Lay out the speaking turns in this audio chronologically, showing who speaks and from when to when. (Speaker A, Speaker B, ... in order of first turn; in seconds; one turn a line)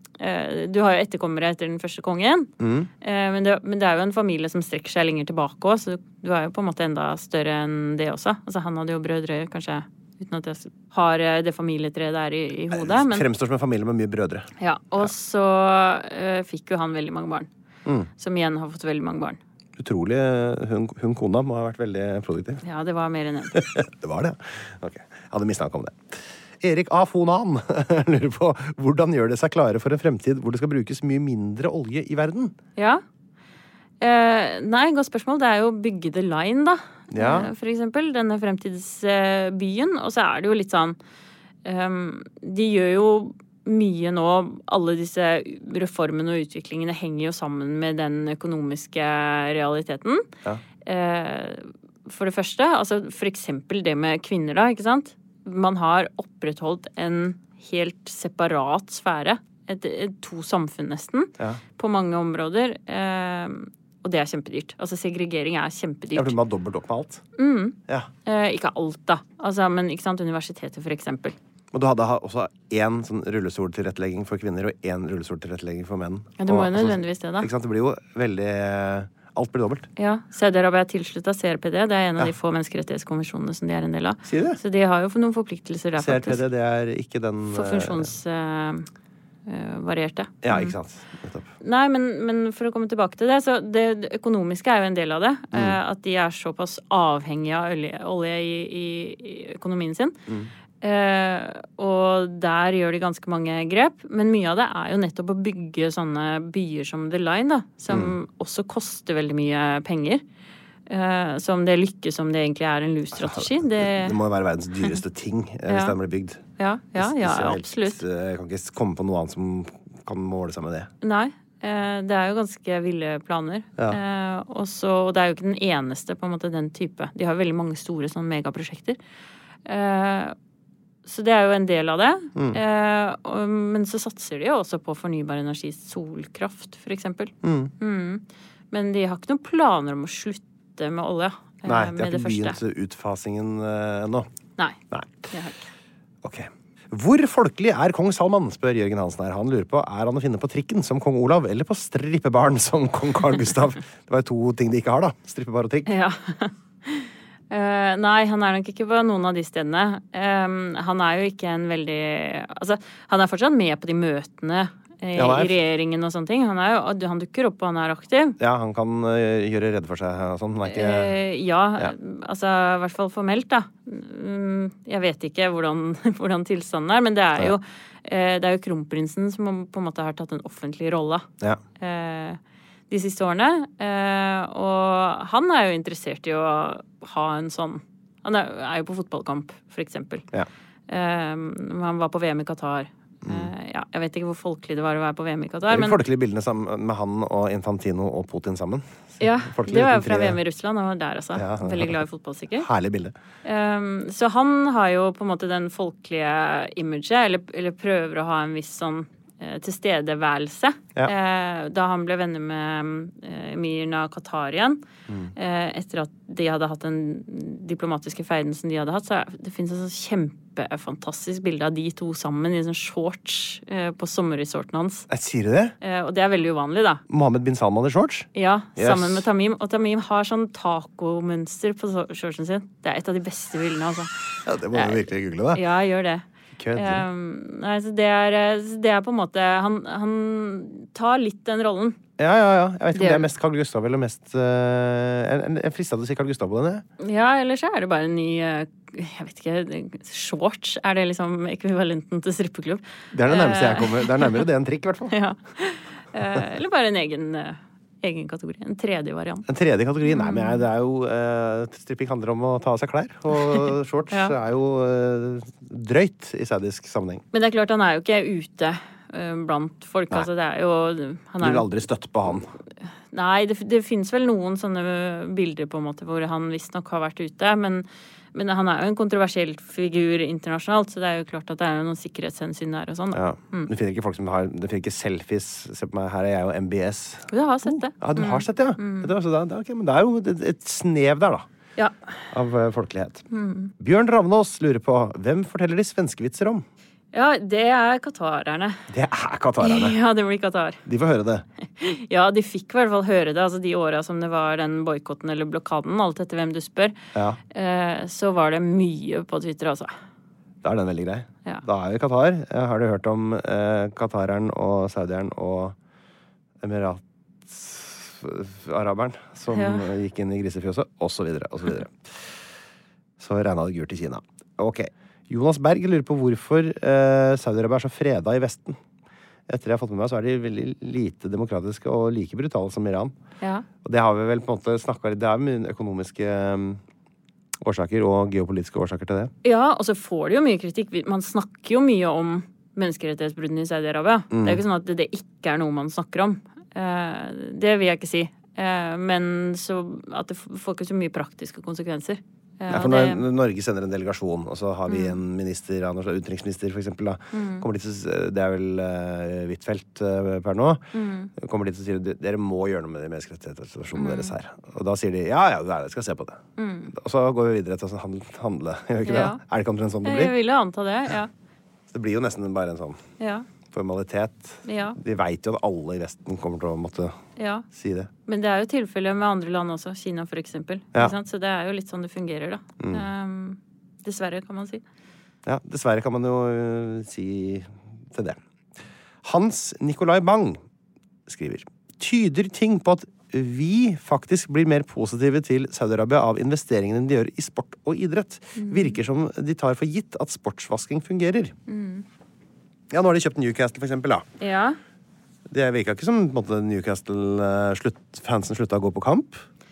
Speaker A: 0.2-13.2
Speaker B: 2.6-2.9
Speaker B: 12.7-14.5
Speaker A: 14.6-17.5
Speaker A: 18.2-19.4
Speaker B: 19.8-22.6
Speaker A: 22.6-23.6
Speaker B: 23.5-32.5
Speaker A: 32.8-33.0
Speaker A: 34.0-41.0
Speaker B: 37.1-37.5
Speaker A: 41.6-50.3
Speaker A: 50.8-66.3
Speaker B: 66.1-67.2
Speaker A: 67.3-71.3
Speaker B: 71.7-79.9
Speaker A: 76.4-77.5
Speaker A: 80.0-86.4
Speaker B: 84.2-84.6
Speaker B: 86.0-88.1
Speaker A: 87.5-88.8
Speaker A: 89.5-90.7
Speaker B: 90.4-91.5
Speaker A: 91.6-100.2
Speaker B: 95.5-95.8
Speaker A: 100.8-110.2
Speaker B: 107.9-108.1
Speaker A: 110.9-114.2
Speaker B: 113.1-116.4
Speaker A: 115.7-116.0
Speaker A: 116.6-118.0
Speaker B: 117.0-120.9
Speaker A: 121.0-129.0
Speaker A: 129.6-130.3
Speaker A: 131.1-142.6
Speaker B: 132.3-132.6
Speaker B: 137.4-137.7
Speaker B: 141.6-144.3
Speaker B: 144.9-145.3
Speaker A: 145.3-145.6
Speaker B: 146.2-155.9
Speaker A: 155.8-168.4
Speaker B: 165.2-165.6
Speaker B: 168.4-171.2
Speaker A: 170.6-181.3
Speaker A: 181.8-182.4
Speaker A: 182.9-190.2
Speaker A: 190.9-196.0
Speaker B: 193.2-193.5
Speaker B: 195.7-200.4
Speaker A: 199.2-202.7
Speaker B: 201.3-202.0
Speaker B: 202.6-203.1
Speaker A: 203.4-214.8
Speaker A: 215.3-225.1
Speaker B: 225.1-225.7
Speaker A: 225.8-227.0
Speaker B: 227.1-229.2
Speaker A: 228.3-236.2
Speaker B: 234.4-235.6
Speaker B: 236.6-237.1
Speaker A: 236.7-242.0
Speaker B: 242.2-246.8
Speaker A: 242.9-243.3
Speaker A: 247.0-254.4
Speaker B: 253.1-255.1
Speaker A: 255.1-259.4
Speaker B: 259.5-267.2
Speaker A: 260.0-260.6
Speaker A: 267.3-271.7
Speaker B: 271.4-272.5
Speaker A: 273.1-283.7
Speaker B: 283.1-291.5
Speaker A: 287.3-289.1
Speaker B: 292.3-293.2
Speaker A: 293.3-293.7
Speaker B: 293.8-296.6
Speaker A: 297.1-298.8
Speaker B: 298.9-300.0
Speaker A: 299.6-300.8
Speaker B: 300.9-301.4
Speaker A: 301.8-307.0
Speaker B: 307.1-307.4
Speaker A: 307.5-309.9
Speaker B: 310.6-315.8
Speaker B: 316.6-322.3
Speaker A: 319.5-319.9
Speaker B: 323.2-328.8
Speaker B: 329.5-333.1
Speaker A: 333.4-333.6
Speaker B: 333.8-336.8
Speaker B: 337.6-339.3
Speaker A: 339.4-353.2
Speaker B: 344.3-344.6
Speaker B: 352.7-360.8
Speaker A: 354.9-355.2
Speaker A: 357.3-357.6
Speaker A: 360.9-361.3
Speaker B: 361.4-366.4
Speaker A: 363.9-364.3
Speaker A: 366.6-366.9
Speaker B: 366.9-370.3
Speaker A: 369.0-369.4
Speaker A: 370.0-371.3
Speaker B: 371.9-373.0
Speaker A: 373.2-373.4
Speaker B: 373.7-377.2
Speaker A: 374.6-375.0
Speaker A: 377.4-377.6
Speaker B: 377.7-378.1
Speaker A: 378.3-384.8
Speaker B: 382.8-383.1
Speaker B: 385.4-388.4
Speaker B: 389.2-390.6
Speaker B: 391.3-401.5
Speaker A: 398.6-399.0
Speaker A: 401.7-402.0
Speaker B: 402.9-404.2
Speaker A: 404.4-404.8
Speaker B: 405.5-409.4